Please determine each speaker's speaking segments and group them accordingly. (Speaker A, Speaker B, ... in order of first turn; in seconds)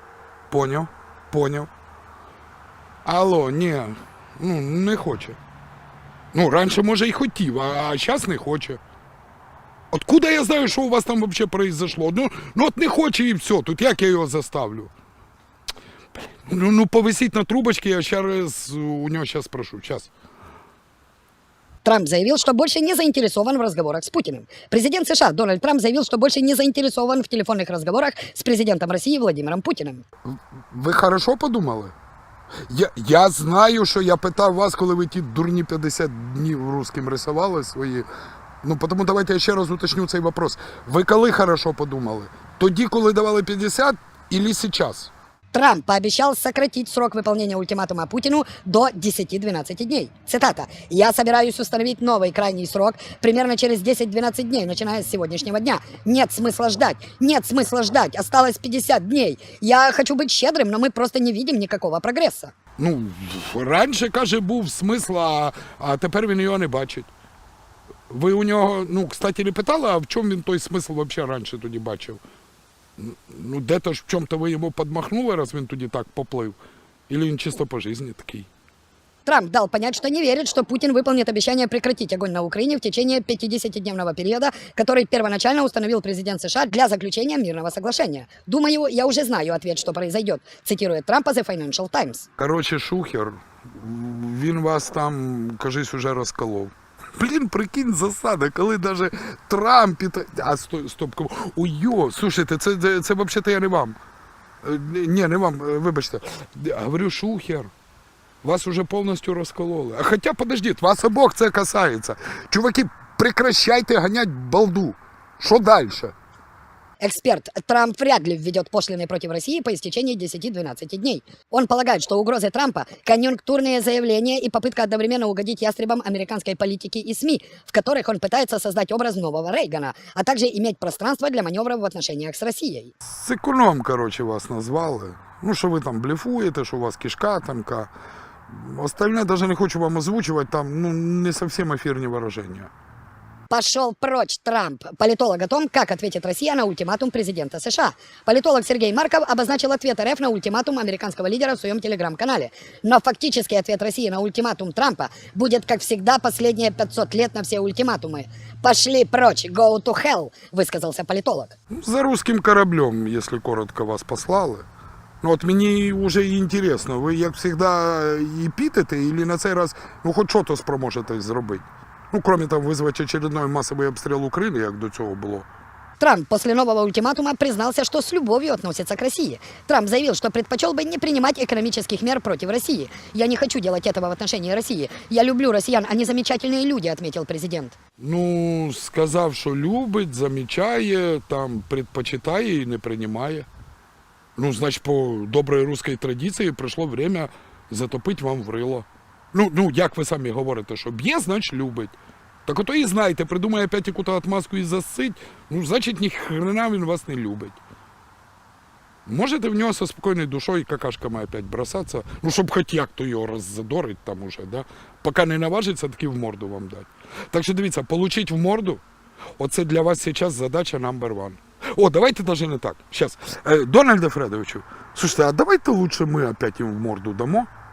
Speaker A: 0.5-1.7, 3.0-5.4, 6.3-8.8, 9.9-14.9, 16.2-20.1, 30.3-31.9, 32.7-38.1, 38.6-45.1, 62.8-67.1, 68.1-72.2, 73.0-76.6, 77.1-78.5, 92.4-104.0, 104.6-107.7, 108.4-116.1, 133.1-137.9, 138.5-142.7, 161.7-164.7, 165.2-175.5, 188.0-193.5, 194.4-207.6, 209.1-218.8, 219.4-227.5
Speaker B: 21.8-30.0, 45.5-62.5, 79.3-92.3, 117.0-132.9, 143.5-161.6, 176.0-187.8